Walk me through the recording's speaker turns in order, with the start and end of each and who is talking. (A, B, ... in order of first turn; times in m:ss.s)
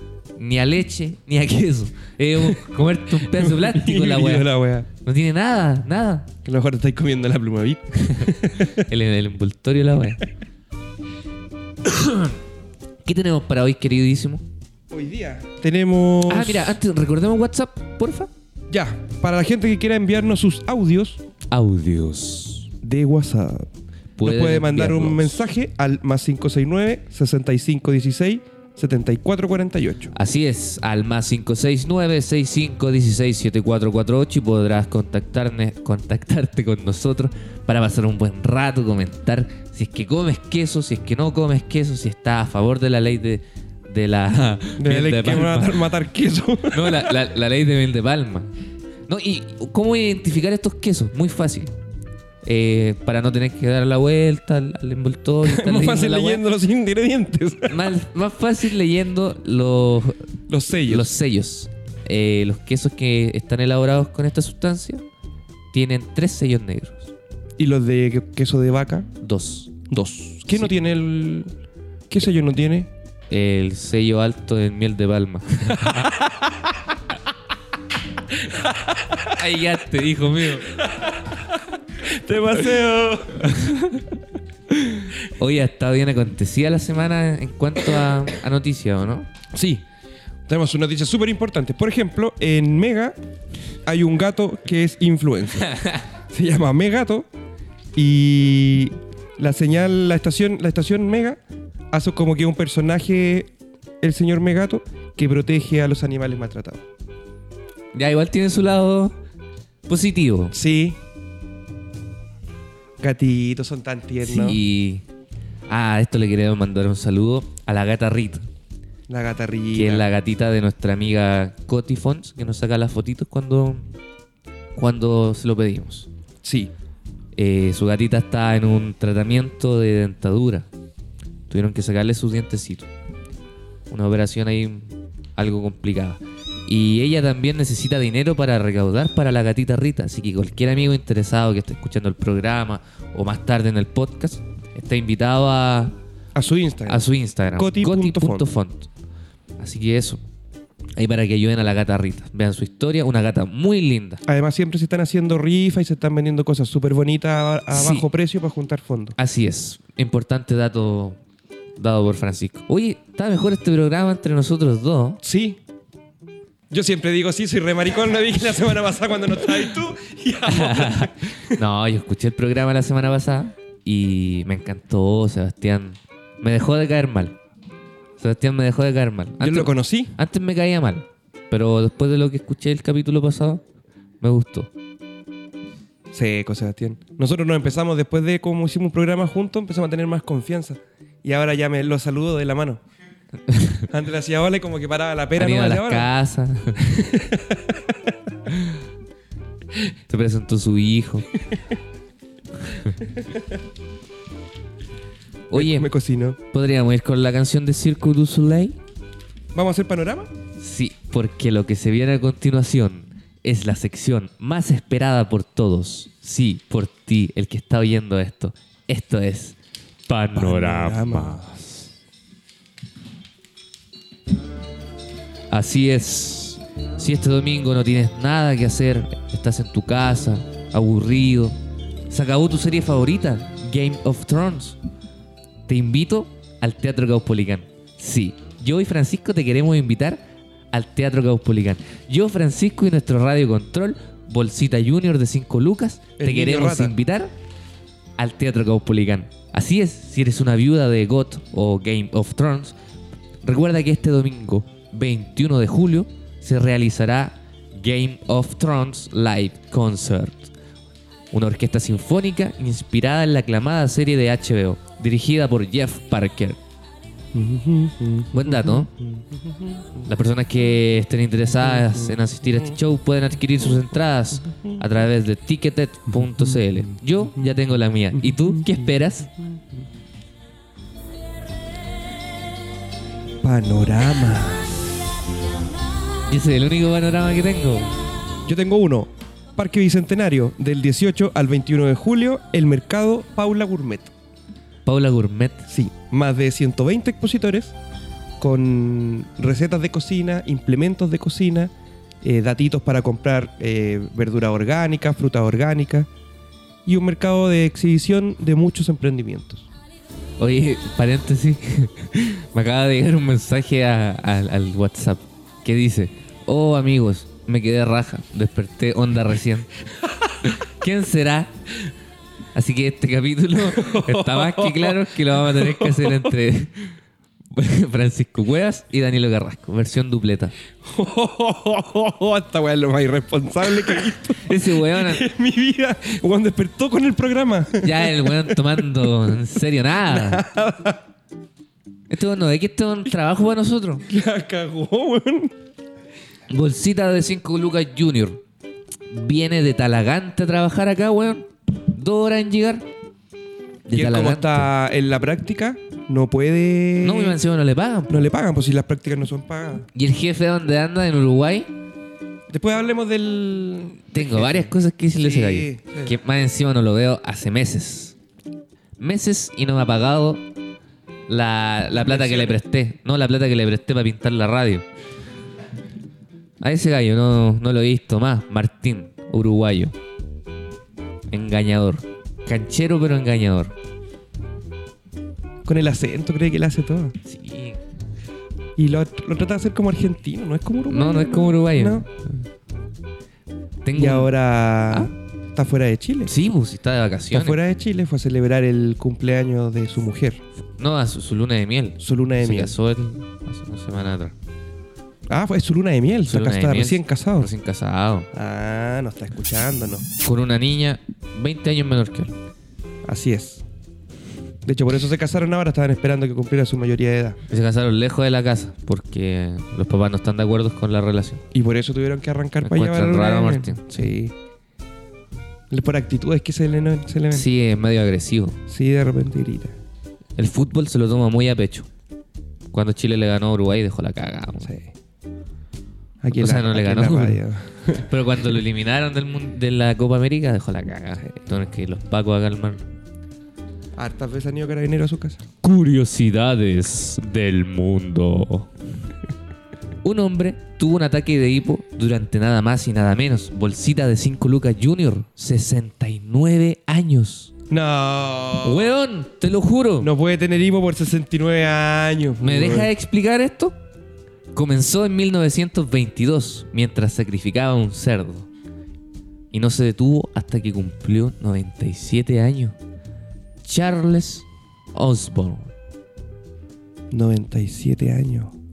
0:00.4-0:04.5 A
0:03.2-0:04.9 B
0:05.0-0:06.3 A
0:06.4-0:08.8 B
0:08.2-0:10.2 A
0:11.8-0:12.3 A
0:13.0-0:14.4 A
0:14.9-0:16.8 B
0:16.3-0:18.3 A
0:18.7-0:21.2 B
0:21.5-0:22.7 A
0:22.8-0:23.7 B
0:24.2-0:25.4 A
0:24.2-0:30.1 B
0:30.1-0:45.8 A
0:44.8-0:47.2 B
0:46.7-0:48.5 A
0:49.1-0:51.7 A
0:52.4-0:56.4 A
0:55.4-0:57.8 B
0:57.7-1:00.2 A
1:00.5-1:01.1 B
1:00.9-1:05.0 A
1:05.7-1:07.1 A
1:07.6-1:09.1 B
1:09.2-1:09.7 A
1:09.9-1:11.5 B
1:12.1-1:12.9 B
1:13.3-1:16.1 A
1:15.9-1:16.5 B
1:18.5-1:19.2 B
1:19.3-1:20.8 A
1:20.7-1:21.4 B
1:22.0-1:23.6 B
1:23.4-1:24.1 A
1:24.8-1:29.3 A
1:29.5-1:29.8 B
1:30.5-1:33.2 B
1:33.9-1:35.7 B
1:35.7-1:36.0 A
1:36.3-1:37.3 B
1:38.0-1:41.4 B
1:41.9-1:43.5 B
1:44.0-1:46.8 B
1:47.9-1:49.1 A
1:49.9-1:50.6 A
1:50.5-1:51.0 B
1:53.0-1:54.6 B
1:54.2-1:55.0 A
1:55.7-1:58.4 A
1:59.1-2:00.1 B
1:59.7-2:03.8 A
2:04.8-2:06.1 A
2:06.4-2:06.7 B
2:07.4-2:10.7 A
2:11.5-2:12.9 A
2:13.9-2:26.0 A
2:26.3-2:28.4 B
2:26.9-2:28.9 A
2:29.6-2:30.2 A
2:31.0-2:34.2 A
2:34.2-2:39.2 B
2:37.7-2:38.1 A
2:39.2-2:41.2 A
2:41.8-2:45.2 A
2:45.2-2:45.6 B
2:46.7-2:51.3 B
2:50.5-2:57.3 A
2:58.2-3:03.6 A
2:59.4-3:00.1 B
3:04.2-3:04.7 A
3:06.1-3:12.8 B
3:13.5-3:13.8 A
3:13.9-3:16.1 B
3:15.4-3:16.9 A
3:16.9-3:17.8 B
3:20.1-3:21.3 A
3:25.5-3:25.9 A
3:25.5-3:26.4 B
3:26.5-3:28.8 A
3:29.5-3:30.3 B
3:30.6-3:39.6 A
3:40.1-3:41.6 A
3:40.3-3:41.6 B
3:45.5-3:51.6 A
3:52.1-3:54.8 A
3:55.7-4:00.2 A
4:00.7-4:07.3 A
4:06.2-4:06.9 B
4:08.2-4:12.8 A
4:13.4-4:20.5 A
4:21.3-4:26.6 A
4:27.3-4:30.1 B
4:28.3-4:28.9 A
4:30.1-4:39.3 A
4:31.6-4:32.1 B
4:38.2-4:38.8 B
4:43.4-4:44.8 B
4:46.3-4:47.9 A
4:48.5-4:54.1 B
4:54.9-4:55.6 A
4:55.7-4:57.8 B
4:58.4-5:01.7 B
5:02.2-5:06.1 B
5:06.9-5:09.6 B
5:10.4-5:19.7 A
5:20.4-5:21.5 A
5:22.5-5:26.8 A
5:23.7-5:26.3 B
5:27.5-5:30.5 A
5:30.9-5:38.8 B
5:34.4-5:35.3 A
5:37.8-5:40.4 A
5:40.0-5:41.0 B
5:42.1-5:44.0 A
5:44.1-5:45.5 B
5:46.5-5:48.4 A
5:49.1-5:52.9 A
5:53.9-5:54.7 A
5:53.9-5:57.4 B
5:57.0-5:58.2 A
5:58.1-5:59.9 B
5:59.9-6:01.7 A
6:02.5-6:06.2 B
6:04.1-6:08.2 A
6:09.0-6:10.4 A
6:11.3-6:14.8 A
6:11.9-6:12.6 B
6:16.6-6:19.9 A
6:21.3-6:23.7 A
6:25.6-6:27.1 B
6:27.2-6:27.8 A
6:28.8-6:32.0 B
6:30.9-6:32.2 A
6:33.8-6:34.3 A
6:33.9-6:36.3 B
6:36.2-6:37.6 A
6:37.3-6:40.4 B
6:40.8-6:44.3 A
6:42.0-6:42.7 B
6:45.3-6:47.5 B
6:46.2-6:48.3 A
6:48.3-6:50.0 B
6:50.2-6:52.3 A
6:53.0-6:53.6 B
6:54.6-6:57.4 B
6:57.5-7:01.4 A
7:01.5-7:04.3 B
7:02.6-7:04.1 A
7:05.7-7:07.5 B
7:07.3-7:08.6 A
7:08.7-7:09.8 B
7:10.4-7:11.9 A
7:12.7-7:14.7 A
7:14.6-7:14.9 B
7:16.2-7:18.1 B
7:16.4-7:17.4 A
7:18.0-7:22.8 A
7:24.0-7:25.4 B
7:25.6-7:28.7 A
7:30.0-7:37.5 A
7:37.7-7:38.9 B
7:38.6-7:40.1 A
7:40.0-7:42.9 B
7:42.4-7:43.8 A
7:44.5-7:48.5 A
7:49.5-7:52.8 A
7:53.6-7:55.7 A
7:57.1-7:58.5 B